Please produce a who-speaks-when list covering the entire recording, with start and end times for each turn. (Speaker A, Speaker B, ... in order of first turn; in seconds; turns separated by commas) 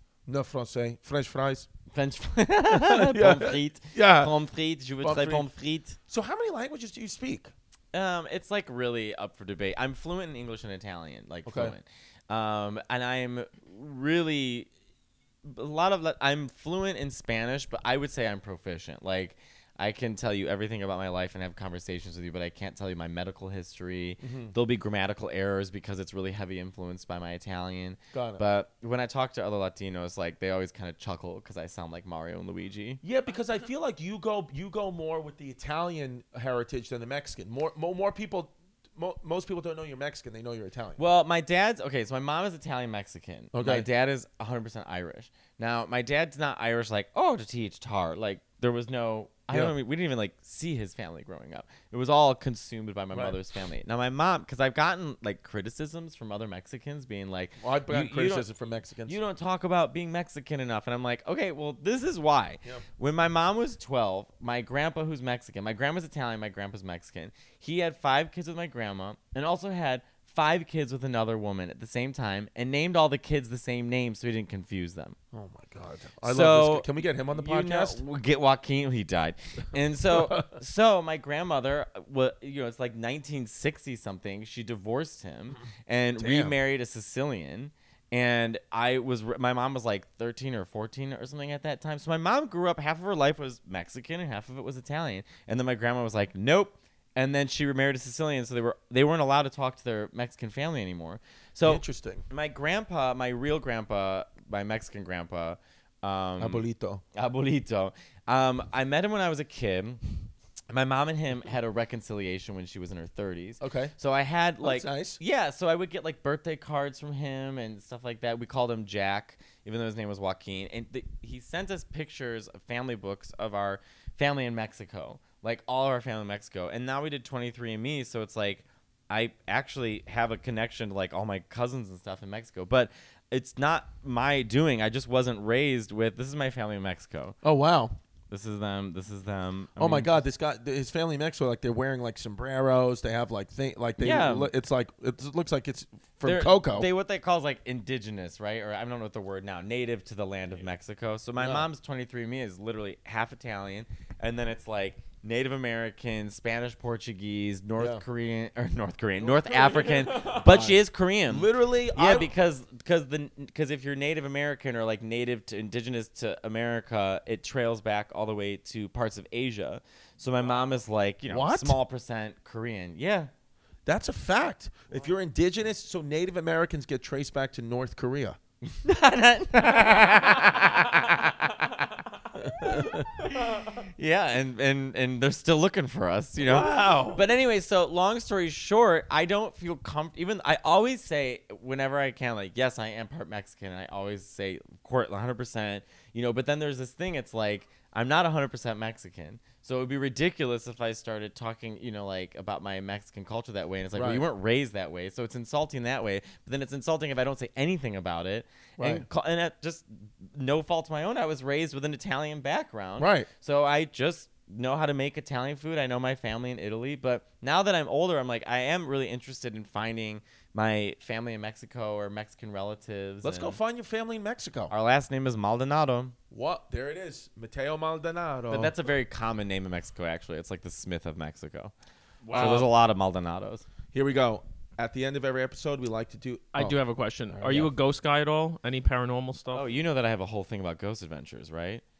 Speaker A: 0.3-1.7, Speaker B: 1.9-6.0, Speaker A: 2.7-4.3, Speaker A: 5.0-5.5, Speaker A: 6.1-7.5, Speaker B: 7.9-14.7, Speaker A: 11.4-11.7, Speaker B: 15.4-33.0, Speaker A: 24.2-24.5, Speaker A: 28.1-28.4, Speaker A: 33.0-41.0, Speaker B: 41.0-58.5, Speaker A: 43.5-43.9, Speaker A: 49.5-49.8, Speaker A: 53.1-53.4, Speaker A: 57.6-59.2, Speaker B: 59.0-75.2, Speaker A: 75.3-78.0, Speaker B: 76.2-106.6, Speaker A: 80.1-80.5, Speaker A: 86.2-86.5, Speaker A: 101.6-102.2, Speaker A: 106.4-107.0, Speaker B: 107.1-110.0, Speaker B: 110.7-137.4, Speaker A: 113.6-113.9, Speaker A: 114.6-115.2, Speaker A: 137.4-137.9, Speaker B: 138.3-140.2, Speaker A: 139.8-146.9, Speaker B: 144.0-144.5, Speaker B: 146.2-173.3, Speaker A: 151.4-151.7, Speaker A: 157.8-158.0, Speaker C: 159.3-160.5, Speaker A: 160.3-162.3, Speaker A: 171.3-171.8, Speaker A: 173.8-178.4, Speaker B: 178.6-182.0, Speaker A: 182.4-183.1, Speaker B: 182.5-223.6, Speaker A: 186.4-187.2, Speaker A: 203.9-204.2, Speaker A: 208.8-209.0, Speaker A: 213.0-213.3, Speaker A: 223.2-224.7, Speaker B: 224.7-226.2, Speaker A: 226.3-228.7, Speaker B: 228.5-231.7, Speaker C: 232.2-232.7, Speaker A: 232.3-232.7, Speaker B: 232.3-233.6, Speaker A: 233.9-236.8, Speaker C: 236.5-239.7, Speaker A: 237.3-237.7, Speaker B: 239.5-241.8